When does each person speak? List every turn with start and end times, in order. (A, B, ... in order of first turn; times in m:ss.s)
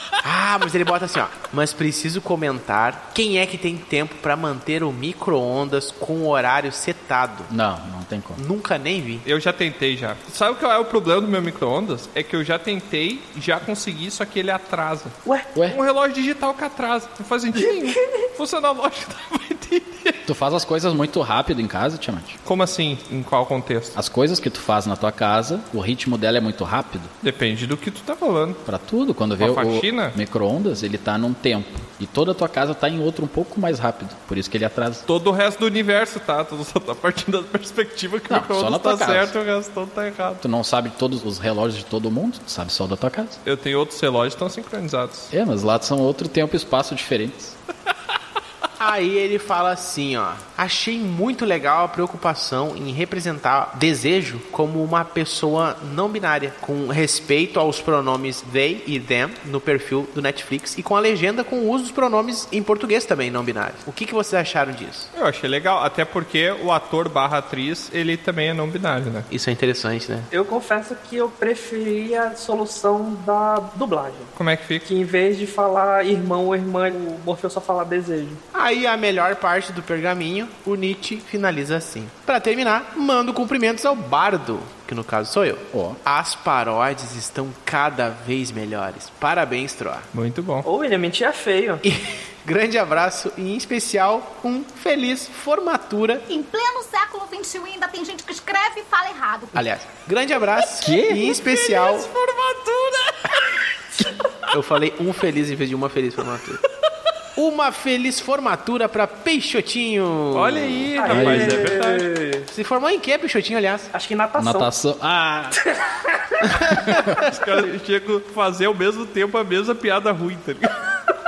0:00.2-0:07.5 A
0:07.5-0:08.4 B
0:08.4-0:09.2 A
0:09.2-0:15.2 C
0:15.6-0:15.8 B
0:15.7-0:20.2 C
0:17.6-0:18.0 D
0:20.3-0:22.4 B
0:22.5-0:24.0 C
0:24.0-0:27.1 B
0:27.2-0:28.6 C
0:28.7-0:35.0 B
0:29.4-0:30.2 C
0:35.1-0:40.4 C
0:38.3-0:39.3 B
0:40.4-0:43.4 B
0:43.4-0:45.3 C
0:45.3-0:47.6 B
0:48.8-1:05.1 A
1:05.1-1:09.3 C
1:09.3-1:10.3 A
1:10.3-1:14.3 D
1:14.4-1:14.9 C
1:14.8-1:18.4 D
1:18.5-1:30.1 A
1:25.7-1:26.0 B
1:30.1-1:30.7 C
1:30.6-1:31.8 D
1:31.8-1:36.3 A
1:36.3-1:39.6 E
1:39.6-1:42.1 A
1:40.8-1:41.3 B
1:41.2-1:43.4 C
1:44.5-1:46.6 A
1:47.4-1:50.9 A
1:50.3-1:52.1 C
1:51.0-1:52.5 D
1:51.1-1:51.7 B
1:52.5-1:53.9 A
1:53.9-1:54.7 D
1:54.4-1:55.6 B
1:55.8-1:56.4 D
1:56.8-2:00.8 C